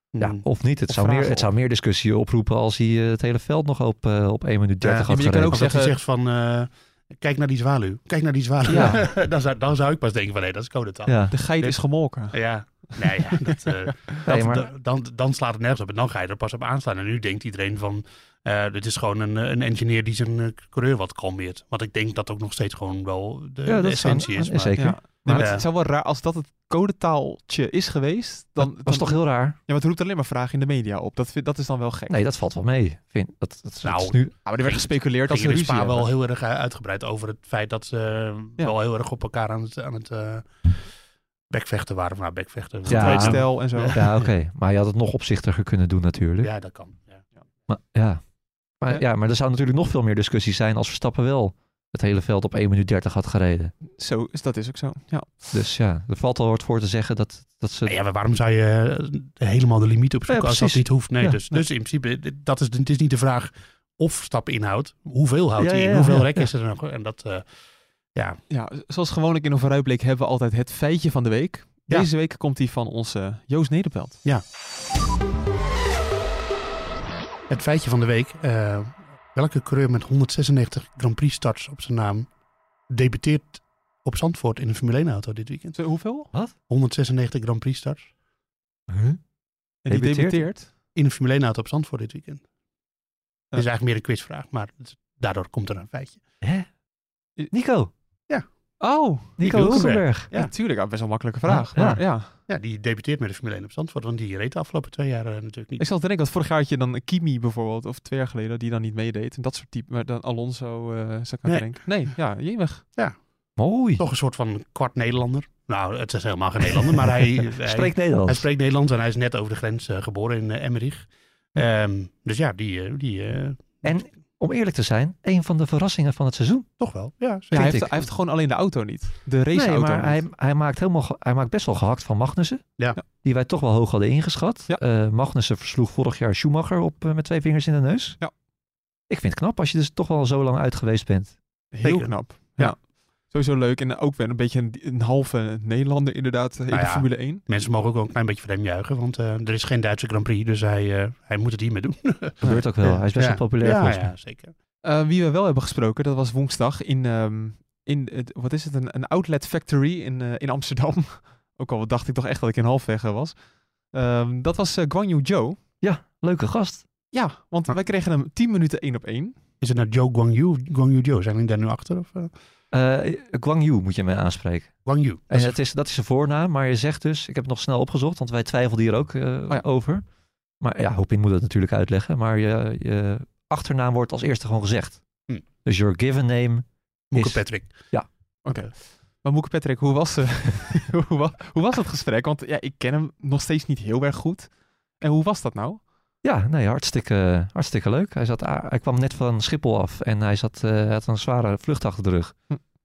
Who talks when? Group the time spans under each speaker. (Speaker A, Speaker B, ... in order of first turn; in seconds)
Speaker A: 0.1-0.4, 4.8-25.6, 33.8-40.8, 41.5-44.2, 46.4-47.2, 57.9-67.5, 77.5-82.3, 82.9-85.9, 86.7-88.1, 91.0-92.4, 93.5-96.2, 99.4-100.5, 102.5-105.9, 114.0-124.0, 126.8-127.8, 141.8-142.7, 146.7-154.5, 169.6-172.3, 174.8-175.6, 187.1-187.8
Speaker B: 0.2-5.7, 8.7-9.0, 11.1-11.3, 14.3-14.7, 23.7-25.5, 28.6-29.6, 32.1-34.3, 42.9-46.5, 47.7-53.7, 55.5-58.0, 60.3-61.4, 65.6-66.5, 88.9-89.2, 89.9-90.5, 96.4-96.7, 97.5-97.9, 99.4-100.3, 101.5-102.0, 113.6-114.0, 117.6-118.5, 123.8-126.7, 127.5-127.9, 129.5-132.6, 133.2-138.2, 139.1-141.4, 152.4-154.1, 165.8-166.8, 172.7-180.0, 180.6-185.0, 185.6-188.1, 196.2-202.4
Speaker C: 0.9-1.5, 5.0-6.0, 11.3-12.4, 12.9-13.9, 24.8-32.2, 34.5-36.1, 42.9-44.0, 53.9-55.4, 68.5-74.2, 85.8-86.3, 89.8-90.7, 98.8-102.3, 105.8-112.9, 127.5-130.2, 141.7-147.4, 154.8-165.6, 167.1-169.4, 188.4-195.8